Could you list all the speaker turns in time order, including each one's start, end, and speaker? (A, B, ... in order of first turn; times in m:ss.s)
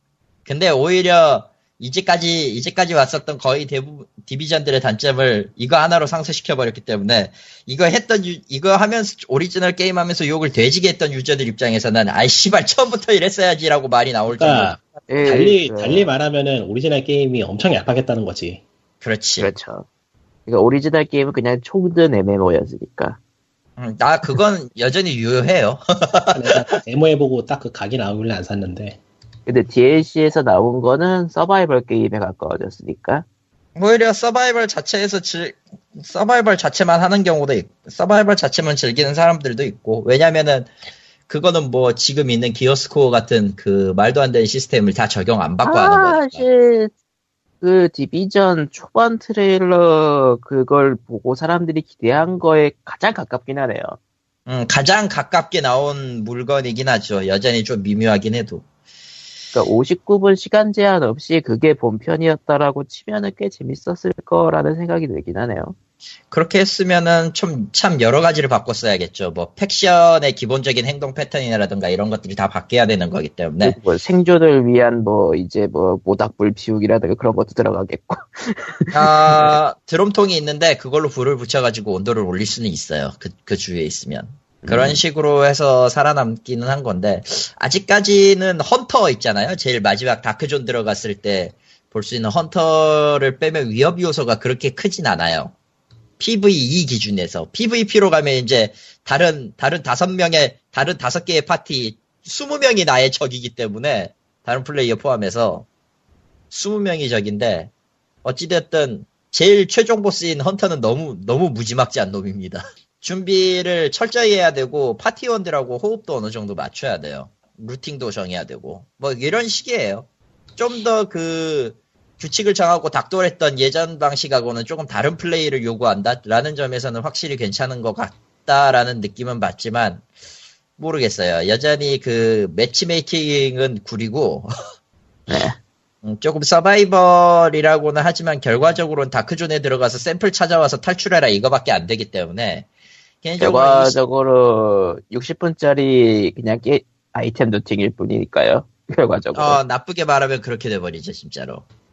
0:00.4-0:14.8 A
0:14.3-0:18.6 B
0:15.1-0:16.1 C
0:19.0-0:19.5 A
0:19.4-0:19.8 C
0:20.5-0:23.2 C
0:23.8-0:26.7 A
0:26.3-0:29.0 B
0:29.4-0:33.2 C
0:33.8-0:40.7 A
0:41.3-0:46.4 A
0:45.6-0:46.9 C
0:47.6-0:54.0 C
0:54.5-0:58.6 A
0:59.5-1:05.7 C
1:06.3-1:13.8 A
1:13.6-1:19.6 C
1:18.9-1:35.5 A
1:24.6-1:25.0 C
1:36.2-1:45.6 A
1:46.5-1:47.7 A
1:48.2-2:10.0 A
2:10.8-2:14.5 A
2:15.3-2:15.6 C
2:16.0-2:22.7 A
2:23.2-2:24.0 A
2:23.4-2:29.6 C
2:29.3-2:31.6 A